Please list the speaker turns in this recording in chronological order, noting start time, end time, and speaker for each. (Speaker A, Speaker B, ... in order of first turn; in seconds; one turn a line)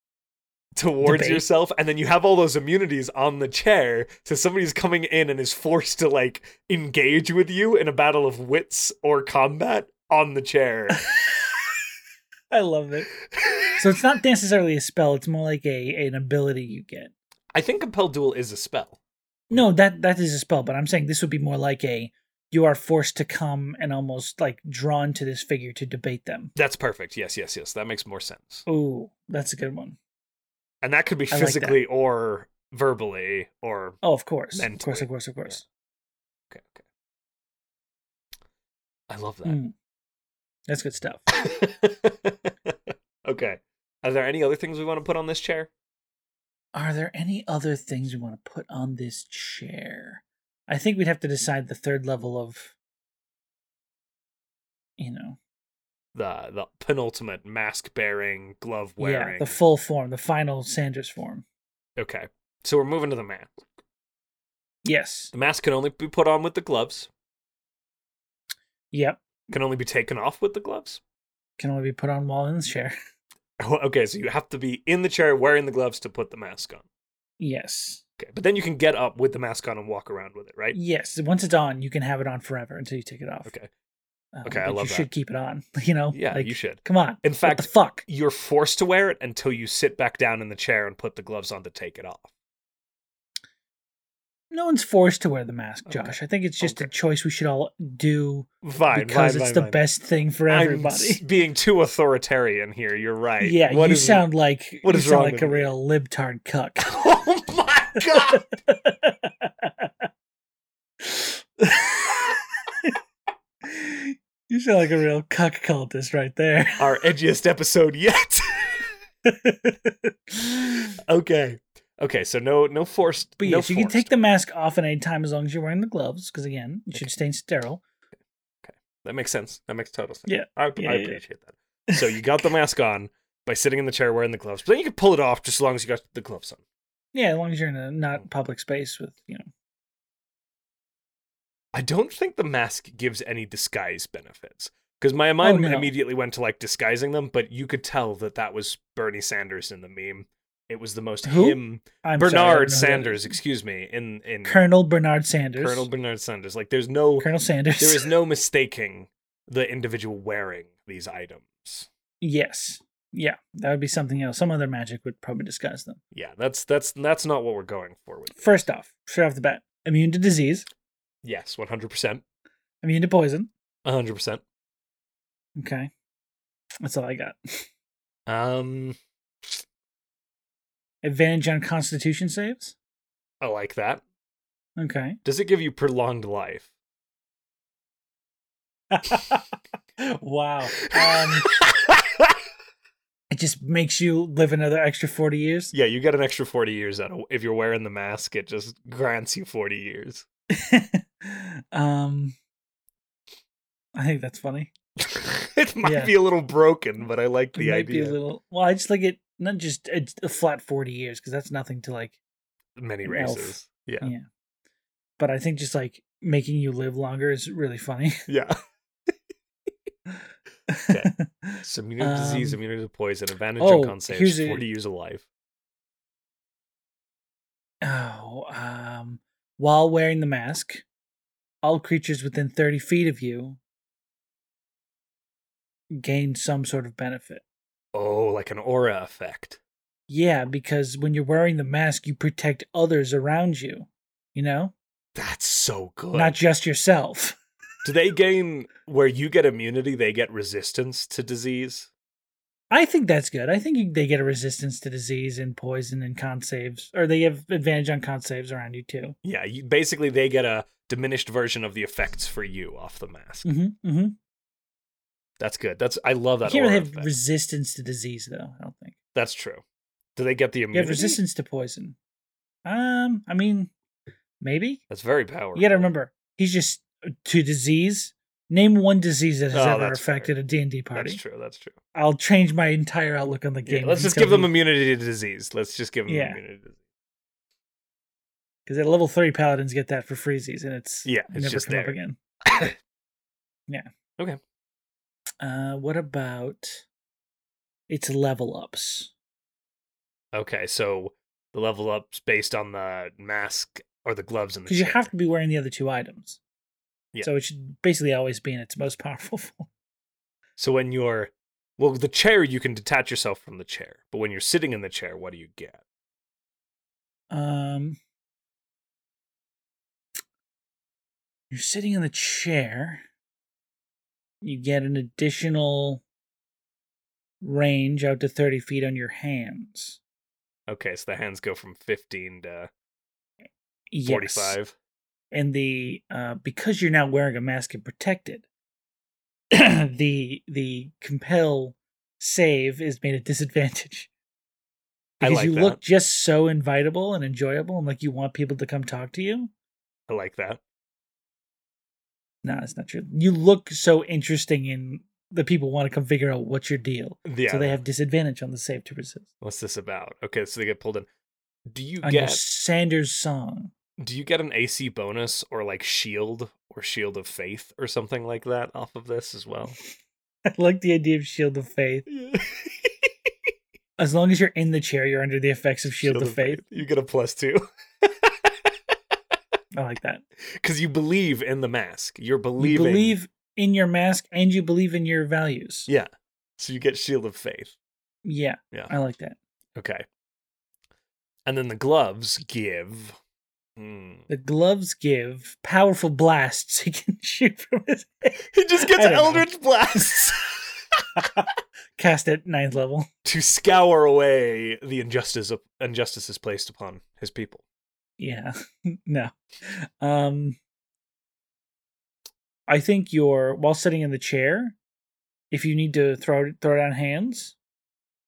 Speaker A: 0.7-11.0
Speaker B: 1.0-1.4
Speaker B: 10.9-11.2
Speaker B: 12.5-13.1
Speaker A: 13.4-13.8
Speaker B: 13.8-17.1
Speaker A: 17.5-19.0
Speaker B: 19.5-26.5
Speaker A: 26.5-28.6
Speaker B: 28.6-30.0
Speaker A: 30.8-34.0
Speaker B: 31.3-31.8
Speaker B: 34.0-35.6
Speaker A: 34.5-35.6
Speaker A: 36.5-36.8
Speaker A: 39.1-39.6
Speaker B: 39.4-39.7
Speaker B: 40.7-41.3
Speaker A: 41.3-45.7
Speaker B: 46.7-52.7
Speaker B: 55.0-55.4
Speaker A: 56.1-59.6
Speaker B: 59.0-61.4
Speaker A: 62.0-63.5
Speaker B: 64.8-65.3
Speaker A: 65.3-67.1
Speaker B: 68.9-69.2
Speaker A: 69.5-71.0
Speaker B: 71.6-72.9
Speaker A: 73.6-76.8
Speaker B: 77.4-78.0
Speaker A: 78.2-80.8
Speaker B: 80.7-83.5
Speaker B: 84.3-88.0
Speaker A: 84.4-85.1
Speaker A: 86.1-92.3
Speaker B: 94.5-101.2
Speaker A: 95.9-96.9
Speaker A: 98.6-99.8
Speaker A: 100.5-104.3
Speaker B: 103.4-106.9
Speaker A: 104.8-105.7
Speaker A: 106.8-108.5
Speaker B: 108.2-110.0
Speaker B: 111.0-113.0
Speaker B: 113.6-116.8
Speaker A: 116.8-118.9
Speaker B: 119.2-120.9
Speaker A: 121.0-124.1
Speaker B: 123.4-127.8
Speaker A: 128.6-136.6
Speaker B: 130.3-131.2
Speaker B: 137.1-139.4
Speaker A: 141.7-154.6
Speaker B: 145.4-145.9
Speaker B: 151.2-153.4
Speaker B: 154.4-155.9
Speaker A: 155.6-157.3
Speaker B: 157.2-158.1
Speaker A: 157.8-161.9
Speaker B: 162.2-166.0
Speaker A: 166.1-168.5
Speaker B: 168.3-170.7
Speaker A: 171.2-172.2
Speaker B: 172.8-173.5
Speaker A: 173.8-174.4
Speaker B: 175.6-175.9
Speaker B: 176.8-177.7
Speaker A: 178.3-179.6
Speaker B: 181.0-182.8
Speaker A: 183.4-184.0
Speaker B: 184.8-185.2
Speaker A: 185.2-186.7
Speaker B: 188.9-189.4
Speaker B: 190.0-191.5
Speaker A: 190.9-192.3
Speaker B: 193.3-195.7
Speaker A: 195.7-200.2
Speaker B: 200.5-202.3
Speaker B: 203.9-204.7
Speaker A: 205.0-208.2
Speaker B: 205.8-206.1
Speaker B: 207.5-212.2
Speaker A: 212.8-214.1
Speaker B: 213.0-214.2
Speaker B: 215.2-218.3
Speaker A: 218.3-218.5
Speaker B: 220.7-222.6
Speaker A: 221.6-225.2
Speaker B: 223.6-224.6
Speaker B: 227.8-230.8
Speaker B: 231.6-233.6
Speaker B: 235.9-237.4
Speaker A: 237.9-239.6
Speaker B: 240.1-244.7
Speaker A: 245.1-246.4
Speaker B: 246.1-247.4
Speaker A: 247.8-251.9
Speaker B: 252.7-259.1
Speaker A: 259.2-263.4
Speaker B: 263.4-264.2
Speaker A: 265.4-267.1
Speaker B: 266.4-268.9
Speaker A: 269.1-269.6
Speaker A: 270.1-271.2
Speaker B: 270.7-271.9
Speaker B: 272.6-273.7
Speaker B: 274.4-274.8
Speaker A: 274.9-275.9
Speaker B: 275.5-281.2
Speaker A: 279.5-280.3
Speaker A: 280.9-281.8
Speaker B: 281.9-284.5
Speaker A: 283.6-286.8
Speaker B: 286.1-286.4
Speaker B: 288.6-292.2
Speaker A: 291.0-292.8
Speaker B: 295.4-296.8
Speaker B: 297.9-299.1
Speaker A: 300.3-305.1
Speaker B: 304.6-306.4
Speaker B: 307.2-309.7
Speaker A: 310.6-315.8
Speaker B: 317.3-318.0
Speaker B: 321.5-323.0
Speaker B: 324.4-326.0
Speaker B: 327.4-330.0
Speaker A: 330.7-332.7
Speaker B: 333.9-334.6
Speaker A: 334.1-334.7
Speaker B: 335.3-338.4
Speaker B: 339.5-344.1
Speaker A: 345.2-345.8
Speaker B: 345.2-349.5
Speaker A: 350.1-350.6
Speaker B: 352.4-359.3
Speaker A: 357.2-357.8
Speaker A: 359.4-361.1
Speaker A: 361.7-362.4
Speaker B: 362.0-363.7
Speaker A: 364.0-369.8
Speaker B: 370.5-372.1
Speaker A: 372.1-373.3
Speaker B: 374.0-376.6
Speaker A: 376.0-379.4
Speaker B: 379.7-380.2
Speaker A: 380.6-383.1
Speaker B: 382.6-385.9
Speaker A: 385.9-387.7
Speaker B: 388.2-389.4
Speaker A: 389.8-390.0
Speaker A: 391.4-393.2
Speaker A: 393.8-394.2
Speaker B: 394.3-400.2
Speaker A: 398.5-401.0
Speaker B: 401.2-403.1
Speaker A: 403.2-407.6
Speaker B: 408.2-410.6
Speaker B: 412.7-414.8
Speaker B: 415.5-417.6